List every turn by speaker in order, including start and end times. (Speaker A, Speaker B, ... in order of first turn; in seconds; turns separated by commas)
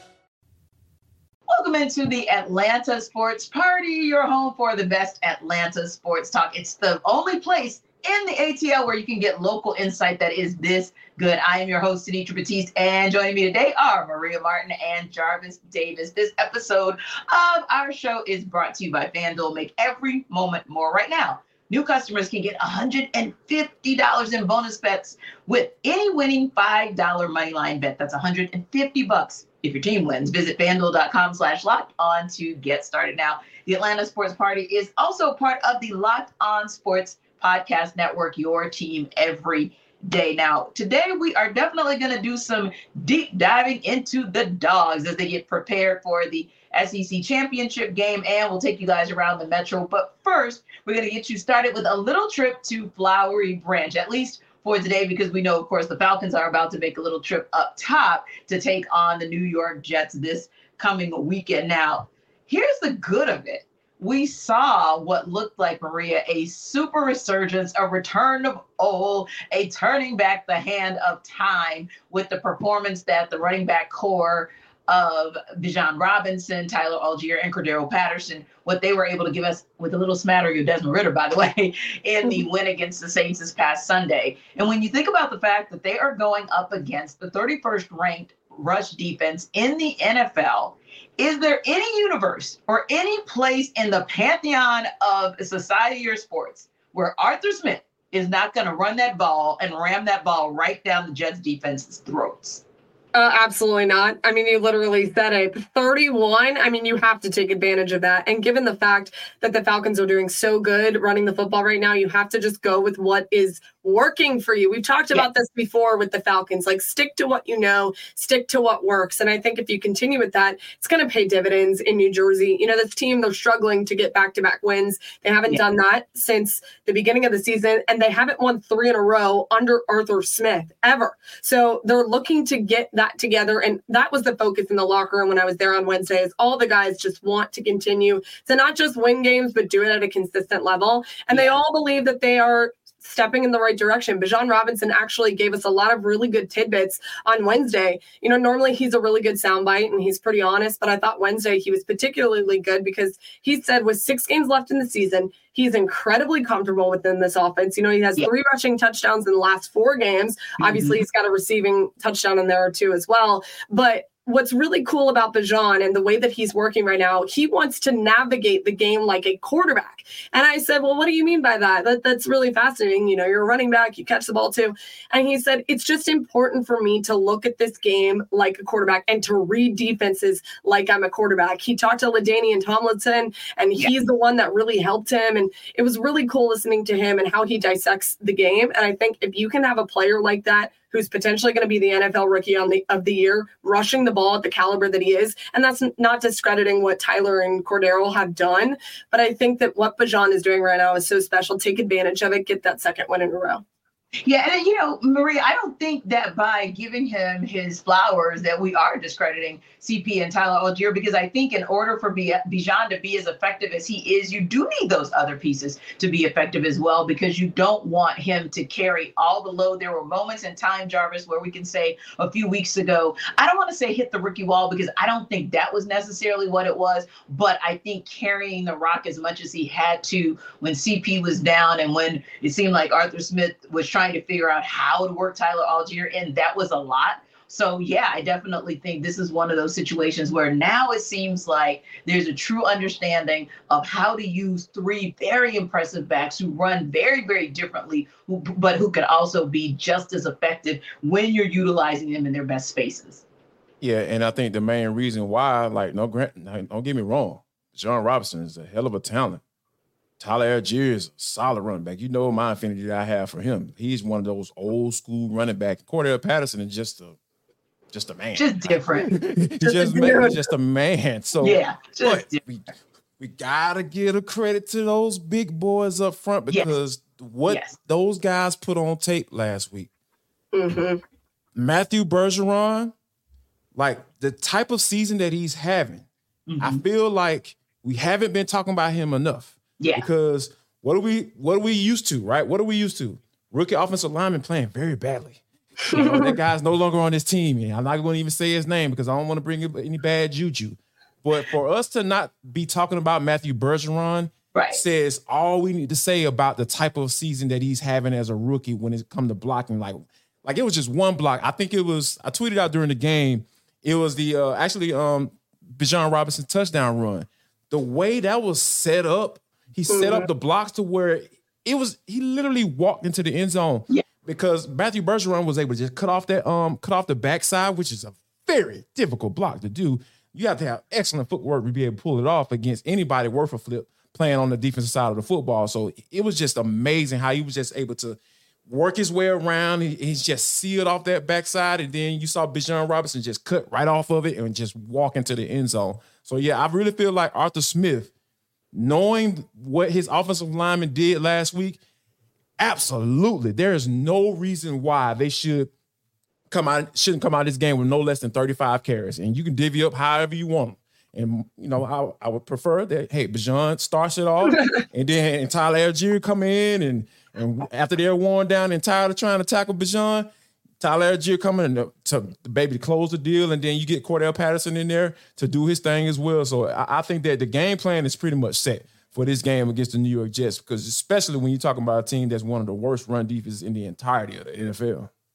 Speaker A: 1.5-102.6, Speaker B: 103.1-203.6, Speaker A: 160.6-161.0, Speaker A: 204.2-253.2, Speaker C: 253.8-259.4, Speaker C: 260.2-267.2, Speaker C: 267.9-279.9, Speaker A: 268.3-269.1, Speaker B: 269.6-270.5, Speaker A: 271.4-272.4, Speaker A: 277.5-277.8, Speaker B: 280.5-281.0, Speaker C: 281.5-282.9, Speaker C: 283.7-286.1, Speaker A: 286.5-286.8, Speaker C: 286.6-348.1, Speaker A: 289.8-290.1, Speaker A: 304.5-304.8, Speaker B: 319.9-320.2, Speaker C: 348.7-351.8, Speaker C: 352.6-355.7, Speaker C: 356.5-370.3, Speaker C: 370.8-385.1